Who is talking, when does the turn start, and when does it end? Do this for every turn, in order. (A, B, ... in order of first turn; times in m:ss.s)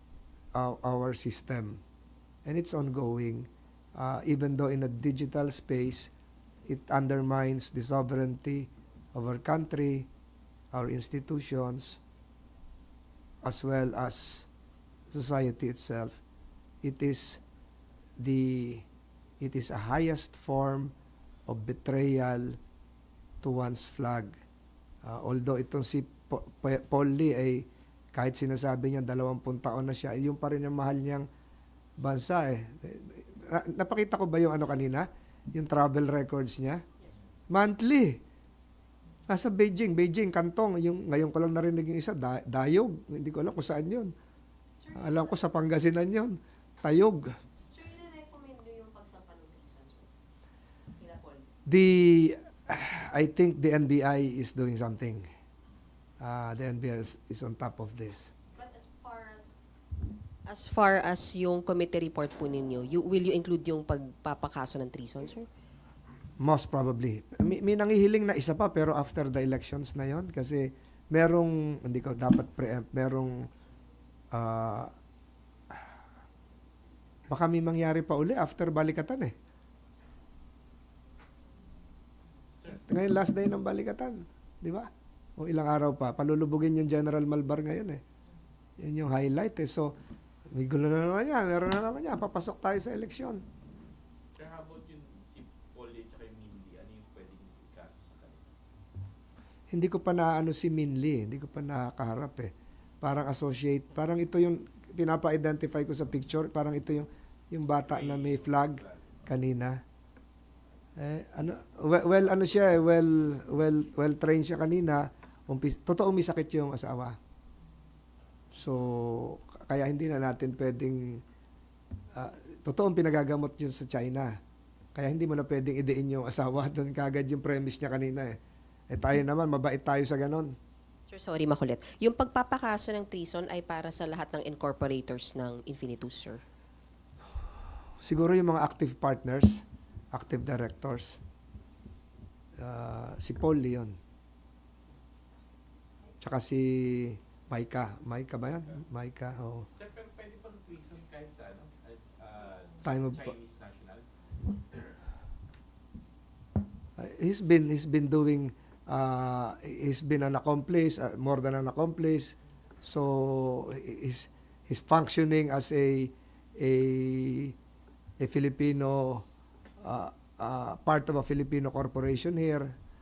0:00.5-0:01.8 A
0:02.4-0:06.1 A
0:06.7-0:10.1 A
0:10.7-0:12.0 A
0:13.4-0:14.5 A
0:15.1-0:16.2 A
0:16.8-0:17.4 A
0:18.2-0:18.8 A
0:19.4-0:20.9 A
0:21.5-0:22.6 A
0:23.4-0:24.3 A
0:25.0-0:31.3 A
0:32.0-0:36.8 A
0:37.5-0:38.2 A
0:39.3-0:44.1 A
0:44.8-0:45.4 B
0:44.9-0:47.4 A
0:47.7-0:50.1 B
0:51.0-0:51.4 B
0:51.6-0:55.3 A
0:56.2-0:58.3 A
0:58.5-0:59.4 B
1:00.4-1:05.5 B
1:06.4-1:13.5 A
1:14.3-1:14.9 A
1:17.3-1:19.3 A
1:22.6-1:28.0 A
1:28.8-1:29.9 A
1:30.5-1:33.4 A
1:34.3-1:38.5 C
1:39.7-1:49.8 A
1:47.8-1:49.2 C
1:51.0-1:57.2 A
1:58.5-2:01.2 A
2:02.1-2:04.4 A
2:04.9-2:08.4 A
2:08.9-2:10.5 A
2:11.1-2:16.4 B
2:18.0-2:19.6 A
2:20.1-2:21.2 A
2:22.6-2:24.0 A
2:26.2-2:29.7 A
2:29.7-2:34.9 C
2:32.8-2:33.3 A
2:37.0-2:47.5 A
2:48.2-2:49.2 A
2:49.8-2:52.7 A